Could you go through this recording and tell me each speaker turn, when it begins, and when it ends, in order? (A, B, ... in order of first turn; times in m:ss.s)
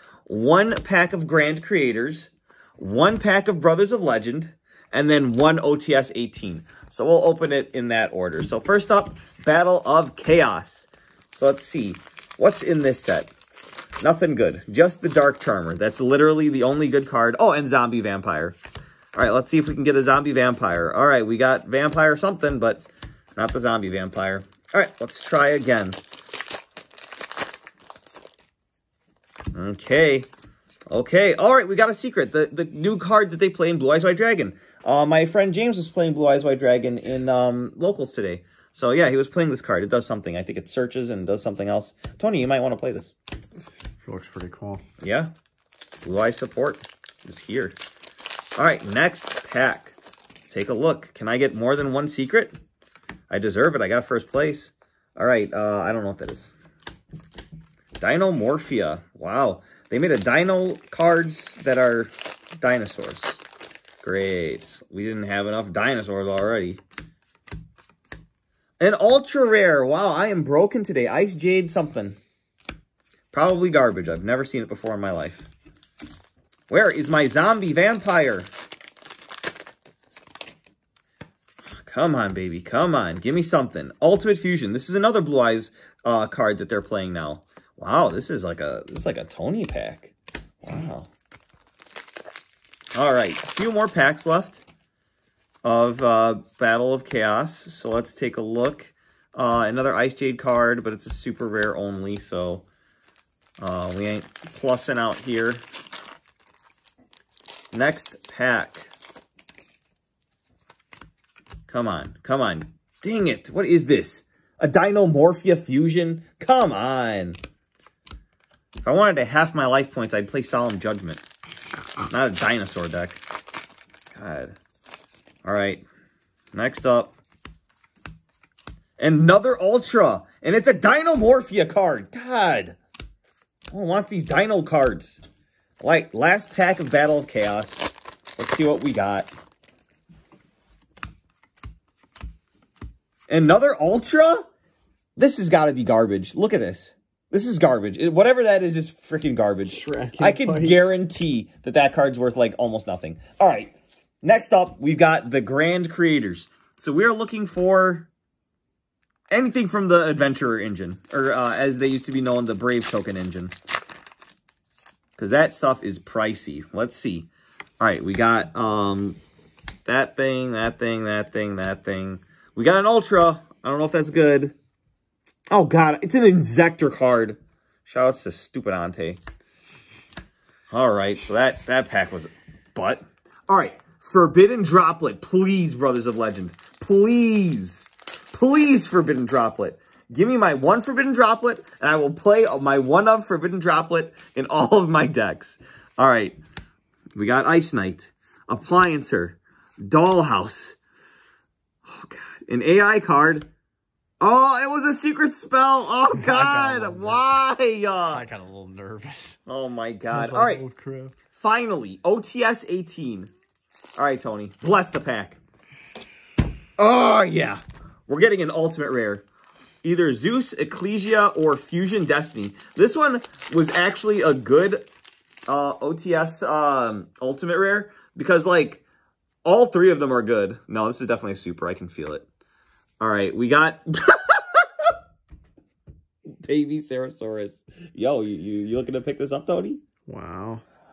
0:00.3-0:13.3 A
0:14.0-0:18.6 A
0:19.1-0:26.0 A
0:29.5-0:30.3 A
0:30.9-0:43.1 A
0:44.0-0:44.8 B
0:45.0-0:45.3 A
0:46.0-0:47.8 A
0:48.6-0:52.6 A
0:53.3-0:56.5 A
0:58.0-1:03.4 A
1:04.0-1:06.8 A
1:08.8-1:12.2 A
1:13.3-1:15.5 A
1:16.7-1:18.5 A
1:21.7-1:31.1 A
1:32.9-1:34.6 A
1:35.6-1:42.6 A
1:43.6-1:45.6 A
1:47.7-1:48.9 A
1:51.7-1:57.4 A
1:58.8-2:01.2 A
2:02.1-2:03.2 A
2:04.1-2:04.6 A
2:05.4-2:05.8 A
2:06.5-2:07.1 A
2:09.0-2:12.8 A
2:13.7-2:15.2 A
2:15.8-2:19.3 A
2:23.3-2:24.5 A
2:25.2-2:38.1 A
2:29.7-2:30.8 B
2:39.3-2:43.5 A
2:45.2-2:47.3 A
2:47.8-2:49.2 A
2:49.8-2:54.5 A
2:55.5-2:59.2 A
3:00.7-3:16.4 A
3:17.1-3:20.8 A
3:21.8-3:23.4 A
3:24.2-3:28.2 A
3:26.1-3:27.2 B
3:28.1-3:29.4 B
3:29.4-3:30.6 A
3:30.1-3:31.1 B
3:31.3-3:33.3 A
3:34.0-3:35.4 A
3:36.8-3:39.2 A
3:39.8-3:44.8 A
3:45.5-3:48.8 A
3:49.4-3:52.2 A
3:53.0-3:54.8 A
3:56.4-3:59.8 A
4:00.1-4:00.6 B